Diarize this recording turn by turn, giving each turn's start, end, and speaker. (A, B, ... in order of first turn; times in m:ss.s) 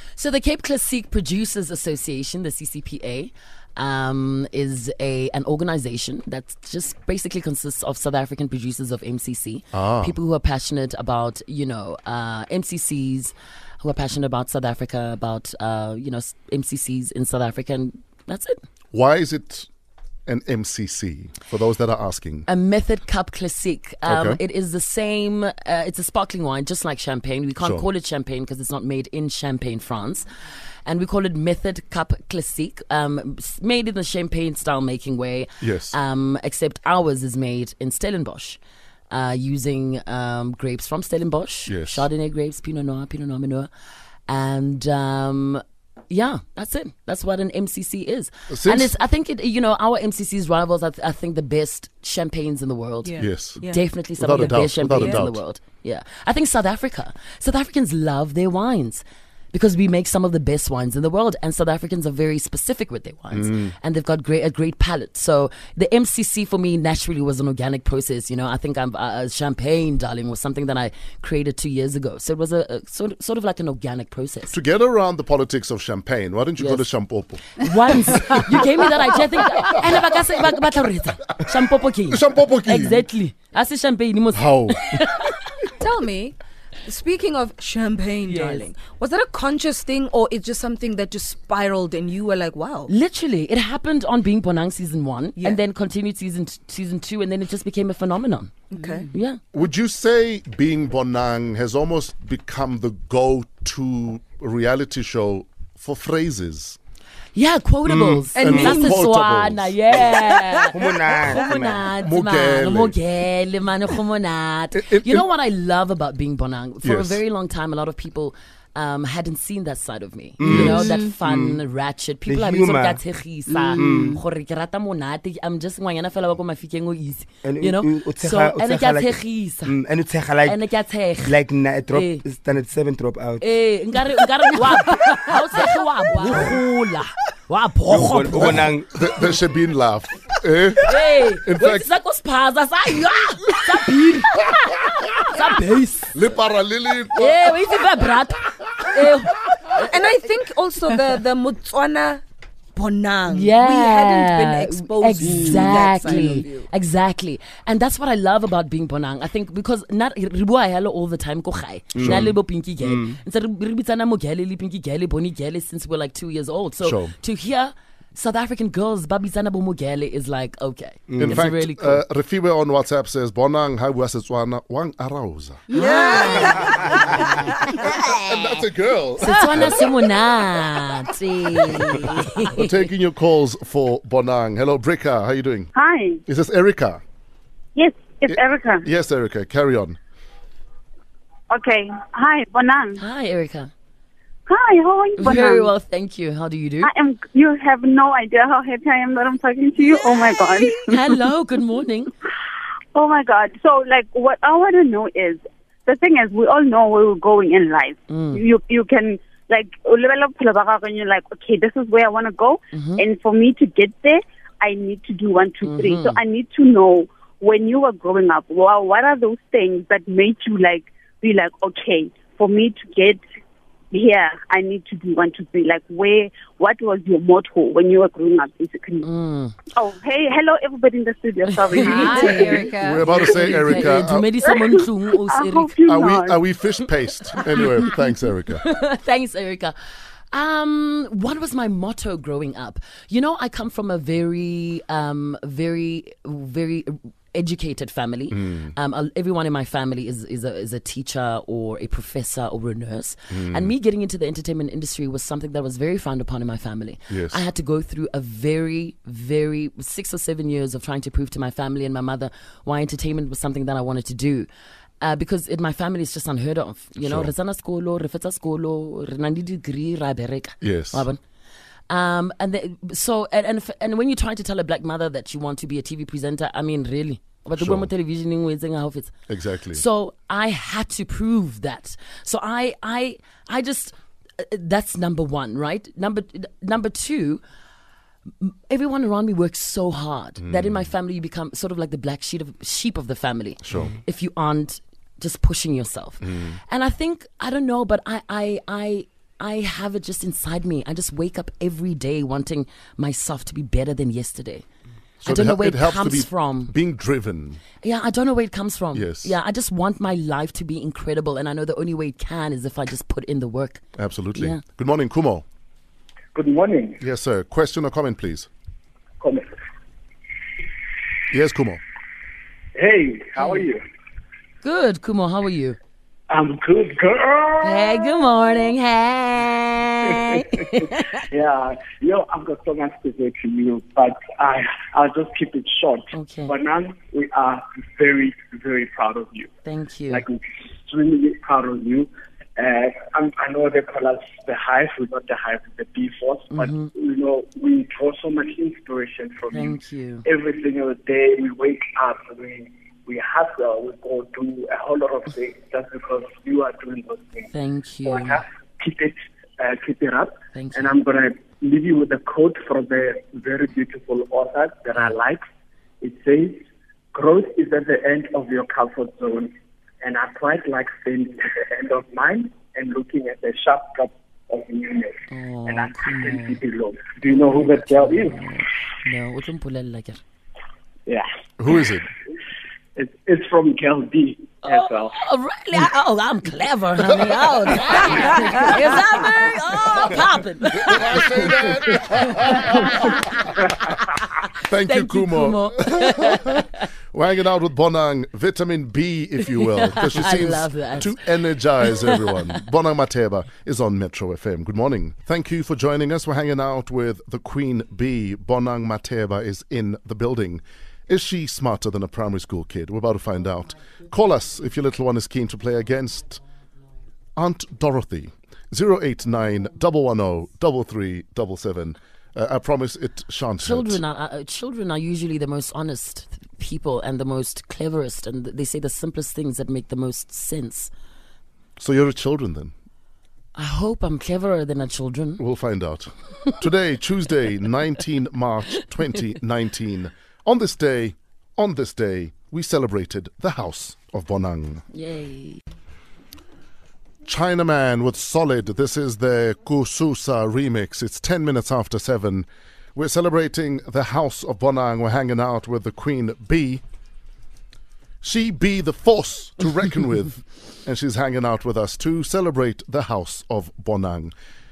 0:00.2-0:18.6 A
0:09.7-0:10.2 B
0:18.9-0:19.7 B
0:20.2-0:22.5 B
0:22.5-0:30.3 A
0:24.0-0:24.4 B
0:27.6-0:27.8 B
0:30.8-0:38.6 A
0:35.6-0:36.0 B
0:39.1-0:43.7 A
0:41.7-0:42.0 B
0:44.3-1:14.5 A
0:48.5-0:48.9 B
0:53.0-0:53.8 C
0:53.2-0:53.6 B
0:54.2-0:55.4 B
0:54.4-0:55.2 C
1:03.3-1:03.7 B
1:14.5-1:20.0 B
1:16.6-1:16.8 A
1:17.5-1:25.7 A
1:22.1-1:23.0 B
1:24.3-1:25.0 B
1:25.8-1:32.9 C
1:28.3-1:28.7 A
1:32.9-1:39.4 A
1:38.7-1:39.1 C
1:39.5-1:46.8 B
1:47.3-2:09.8 A
1:47.8-1:48.7 D
1:48.3-1:49.0 C
1:48.4-1:50.1 B
1:50.7-1:51.9 D
1:52.0-1:53.0 B
1:54.7-1:55.2 B
1:56.8-1:57.2 B
2:00.4-2:01.6 D
2:00.4-2:00.8 B
2:00.6-2:01.1 C
2:02.2-2:03.0 D
2:03.5-2:04.2 C
2:03.8-2:04.2 D
2:07.4-2:10.6 D
2:10.4-2:11.4 A
2:11.2-2:13.4 D
2:11.9-2:12.2 A
2:13.4-2:18.7 A
2:14.6-2:15.0 D
2:16.1-2:16.6 C
2:16.2-2:16.6 D
2:17.9-2:19.3 D
2:18.4-2:21.9 B
2:20.8-2:26.3 A
2:26.1-2:27.8 B
2:27.1-2:29.9 A
2:28.8-2:29.1 B
2:29.8-2:32.2 C
2:32.7-2:36.7 C
2:33.3-2:52.0 A
2:35.2-2:36.3 D
2:41.9-2:43.2 D
2:42.0-2:42.3 B
2:46.8-2:47.1 B
2:51.1-2:51.5 D
2:51.2-2:55.7 B
2:55.7-2:58.1 C
2:55.7-2:57.4 A
2:56.6-2:57.3 D
2:58.0-2:59.9 B
2:59.2-3:02.7 A
3:02.5-3:05.7 B
3:05.7-3:06.2 E
3:06.3-3:07.0 B
3:07.8-3:08.8 E
3:08.3-3:10.0 B
3:11.5-3:13.0 E
3:13.0-3:13.7 A
3:14.5-3:15.7 E
3:15.2-3:16.9 A
3:16.8-3:21.2 E
3:20.2-3:22.1 A
3:22.9-3:43.2 E
3:28.1-3:28.4 A
3:32.7-3:33.0 A
3:35.6-3:36.2 A
3:43.9-3:49.1 E
3:49.0-3:49.6 A
3:49.7-3:52.7 E
3:51.7-3:55.7 A
3:51.7-3:54.0 C
3:52.6-3:54.2 B
3:54.4-3:56.4 E
3:55.8-3:58.6 B
3:57.4-3:57.9 A
3:58.6-4:24.5 A
4:08.3-4:08.7 B
4:13.3-4:13.7 B
4:17.1-4:17.4 B
4:25.0-4:31.2 A
4:27.0-4:27.3 B
4:30.6-4:31.0 B
4:31.9-4:39.2 A
4:37.6-4:37.9 B
4:39.3-4:39.8 B
4:39.7-4:47.4 A
4:48.4-5:04.6 A
4:50.4-4:50.9 B
4:53.6-4:53.9 B
4:56.2-4:56.6 B
5:05.2-5:07.6 B
5:05.2-5:06.7 A
5:07.8-5:14.6 A
5:08.9-5:09.3 B
5:14.0-5:15.4 B
5:16.3-5:17.0 F
5:17.0-5:18.5 B
5:19.2-5:19.5 F
5:21.3-5:21.8 B
5:22.8-5:23.8 F
5:24.6-5:25.8 A
5:26.3-5:28.5 F
5:27.6-5:31.2 A
5:30.0-5:39.5 F
5:36.1-5:36.5 A
5:39.6-5:40.3 A
5:40.1-5:57.5 F
5:46.5-5:46.9 A
5:49.5-5:50.2 A
5:57.5-5:58.4 A
5:58.0-6:05.4 F
6:00.5-6:00.9 A
6:06.0-6:18.4 F
6:15.3-6:16.6 A
6:17.2-6:20.2 A
6:21.1-6:21.9 F
6:21.6-6:22.1 B
6:23.0-6:25.2 F
6:24.6-6:33.5 A
6:28.0-6:29.6 C
6:30.7-6:33.4 B
6:33.6-6:33.9 F
6:34.6-6:56.4 B
6:34.9-6:36.8 A
6:39.5-6:42.4 A
6:57.4-7:04.0 B
7:03.6-7:10.9 A
7:11.8-7:12.7 B
7:13.6-7:15.4 A
7:15.4-7:24.8 B
7:24.9-7:25.6 A
7:27.2-7:36.8 B
7:38.2-7:44.3 B